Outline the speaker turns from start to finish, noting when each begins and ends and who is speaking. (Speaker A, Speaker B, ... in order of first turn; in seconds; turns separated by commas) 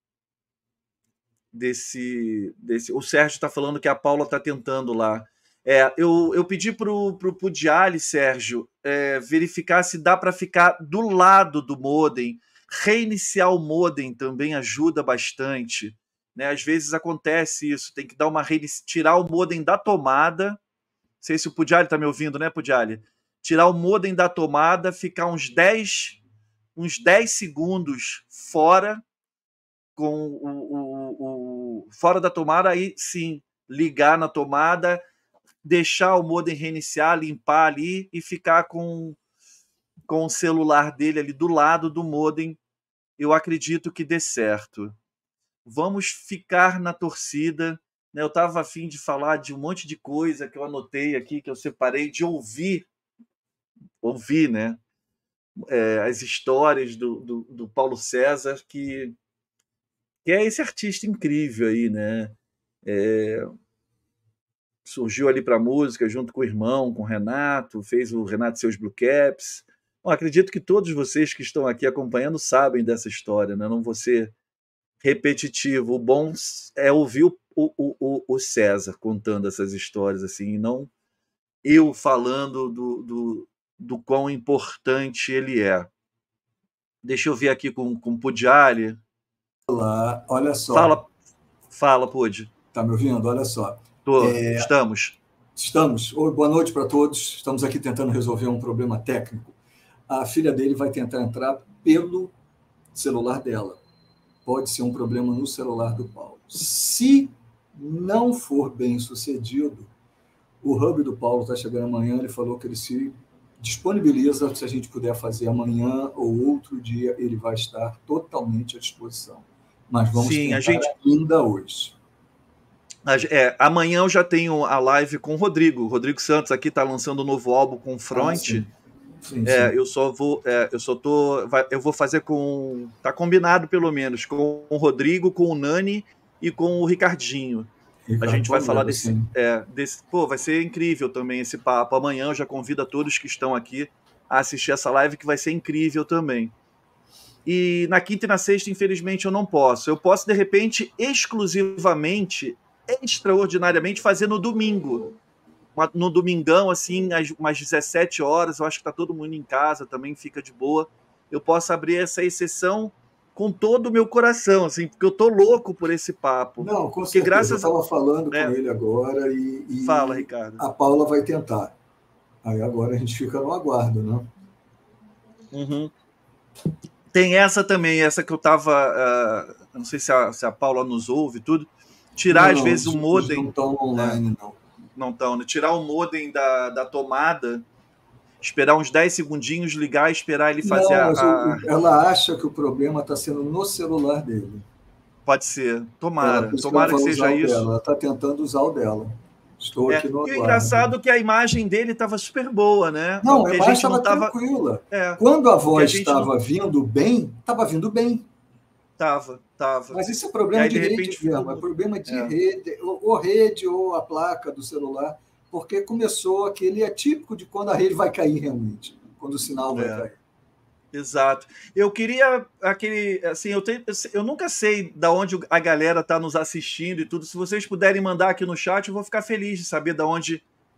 Speaker A: 1.5-20.6, Speaker A: 21.2-26.2, Speaker A: 26.8-29.0, Speaker A: 29.9-35.0, Speaker A: 35.6-39.2, Speaker A: 40.1-42.6, Speaker A: 43.2-44.9, Speaker A: 45.6-52.9, Speaker A: 54.0-54.8, Speaker A: 55.6-59.1, Speaker A: 60.2-63.5, Speaker A: 64.8-74.3, Speaker A: 75.0-80.9, Speaker A: 81.6-85.9, Speaker A: 87.0-89.0, Speaker B: 89.7-90.9, Speaker A: 90.7-91.1, Speaker A: 91.7-92.5, Speaker B: 92.7-94.7, Speaker A: 94.0-95.2, Speaker B: 95.5-99.6, Speaker B: 100.1-102.3, Speaker B: 102.9-103.8, Speaker B: 104.4-109.9, Speaker B: 110.6-122.0, Speaker A: 120.1-120.9, Speaker A: 123.0-128.7, Speaker B: 128.1-128.7, Speaker B: 129.2-129.7, Speaker A: 129.4-137.7, Speaker B: 138.1-139.3, Speaker A: 138.2-146.5, Speaker A: 147.4-155.2, Speaker A: 155.8-167.7, Speaker B: 166.6-171.7, Speaker A: 169.8-170.6, Speaker B: 172.4-174.3, Speaker A: 175.5-175.9, Speaker A: 177.1-184.2, Speaker B: 182.3-184.6, Speaker A: 184.9-187.6, Speaker A: 188.4-191.7, Speaker B: 190.6-194.7, Speaker A: 195.2-197.7, Speaker B: 196.2-200.9, Speaker A: 199.9-204.3, Speaker B: 203.2-208.3, Speaker A: 204.9-206.3, Speaker A: 209.0-212.3, Speaker B: 209.9-220.2, Speaker A: 219.7-220.1, Speaker A: 220.9-230.4